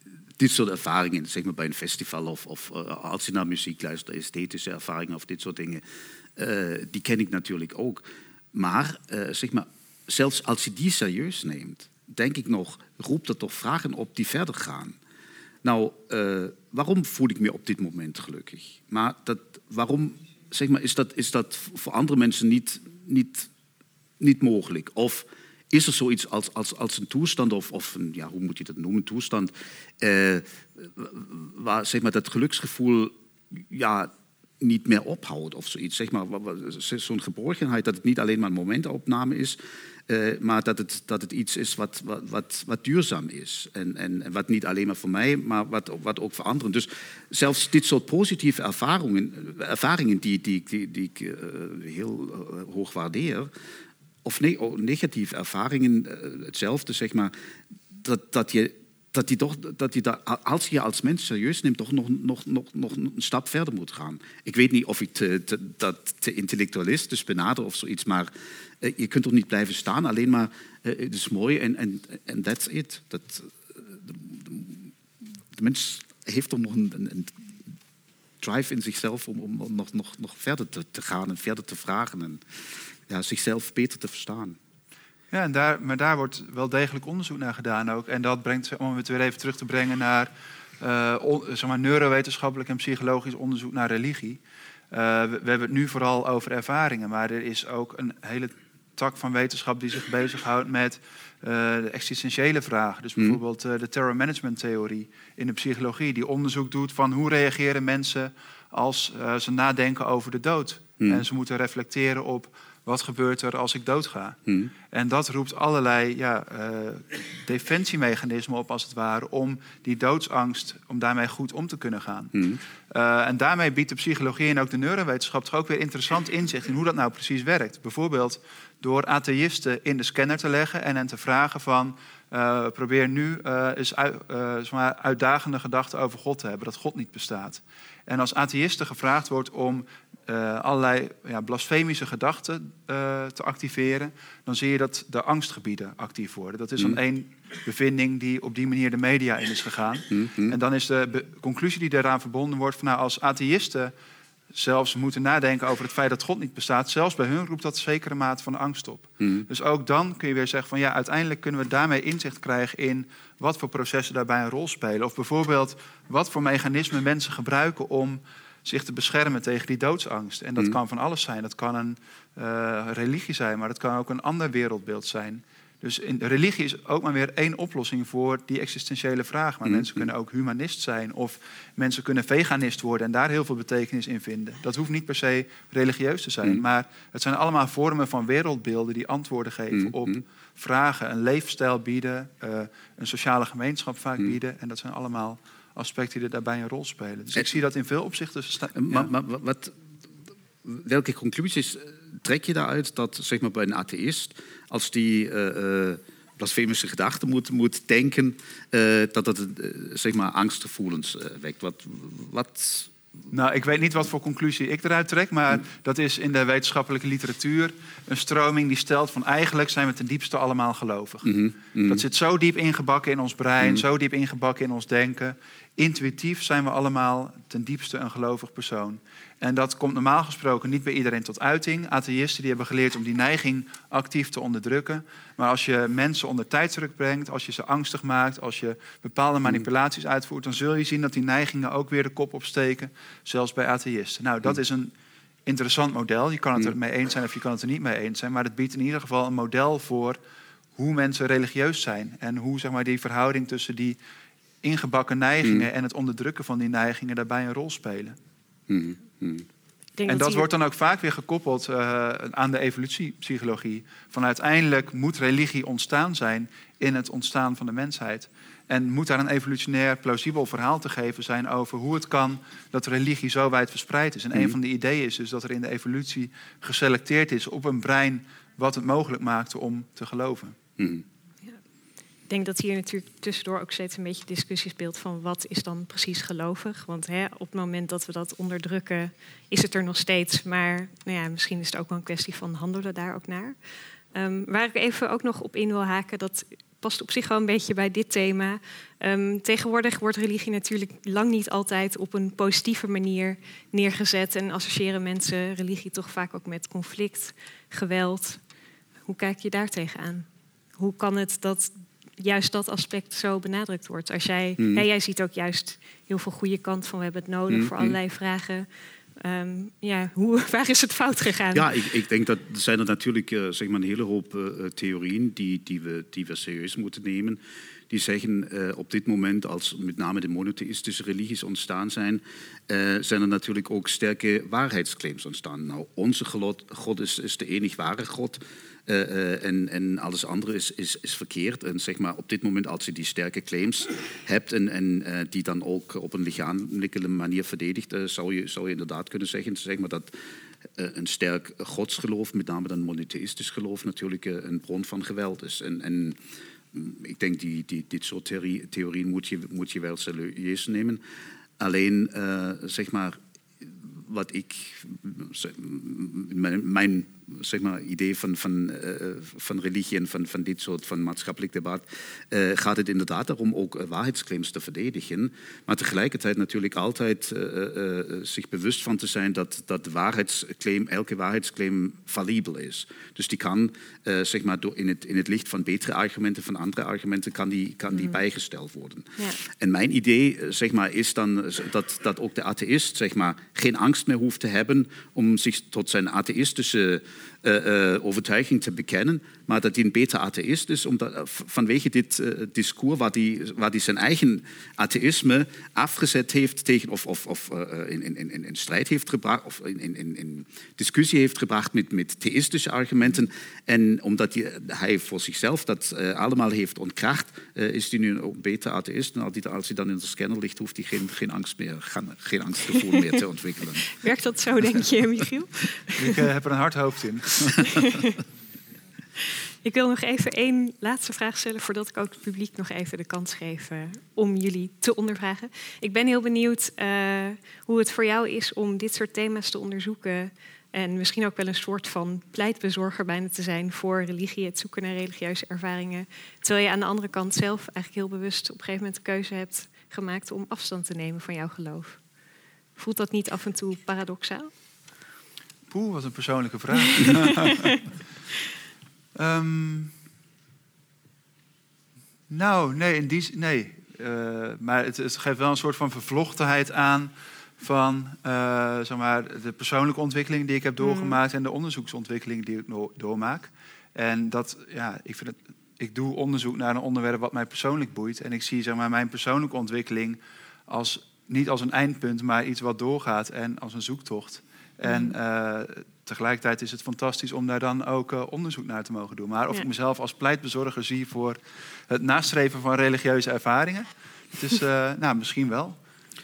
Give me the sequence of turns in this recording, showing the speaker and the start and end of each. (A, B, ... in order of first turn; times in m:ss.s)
0:00.4-0:05.8 A
0:06.4-0:15.0 A
0:15.6-0:23.5 A
0:24.2-0:34.1 A
0:34.6-0:53.5 A
0:54.2-0:57.3 A
0:57.9-1:14.9 A
1:15.6-1:17.3 A
1:18.4-1:22.4 A
1:23.1-1:24.6 A
1:25.3-1:34.4 B
1:34.9-1:54.4 B
1:54.9-2:02.4 B
2:02.3-2:02.6 A
2:02.9-2:33.9 B
2:30.1-2:30.6 A
2:34.5-3:19.1 B
2:39.2-2:39.5 A
2:59.6-3:00.0 A
3:09.7-3:10.2 A
3:18.8-3:19.7 A
3:20.6-3:32.9 A
3:33.3-4:04.9 B
3:41.2-3:42.0 A
4:05.5-4:10.2 B
4:10.8-4:14.0 B
4:14.6-4:18.2 B
4:18.7-4:19.5 A
4:20.0-4:20.5 C
4:20.1-4:40.6 B
4:40.8-4:41.0 A
4:42.3-4:53.6 C
4:54.1-5:08.4 C
5:09.1-5:21.8 C
5:14.6-5:14.8 A
5:17.5-5:18.0 A
5:21.5-5:50.1 A
5:50.8-5:56.2 A
5:56.7-6:01.0 A
6:01.6-7:04.0 A
6:27.9-6:28.2 C
7:04.0-7:06.3 C
7:06.0-7:07.9 B
7:07.6-7:08.2 C
7:09.6-7:32.0 C
7:32.8-7:34.5 C
7:35.7-7:37.8 B
7:39.2-7:39.9 B
7:42.3-8:11.4 B
7:50.8-7:51.2 C
8:04.9-8:05.2 C
8:11.9-8:15.8 B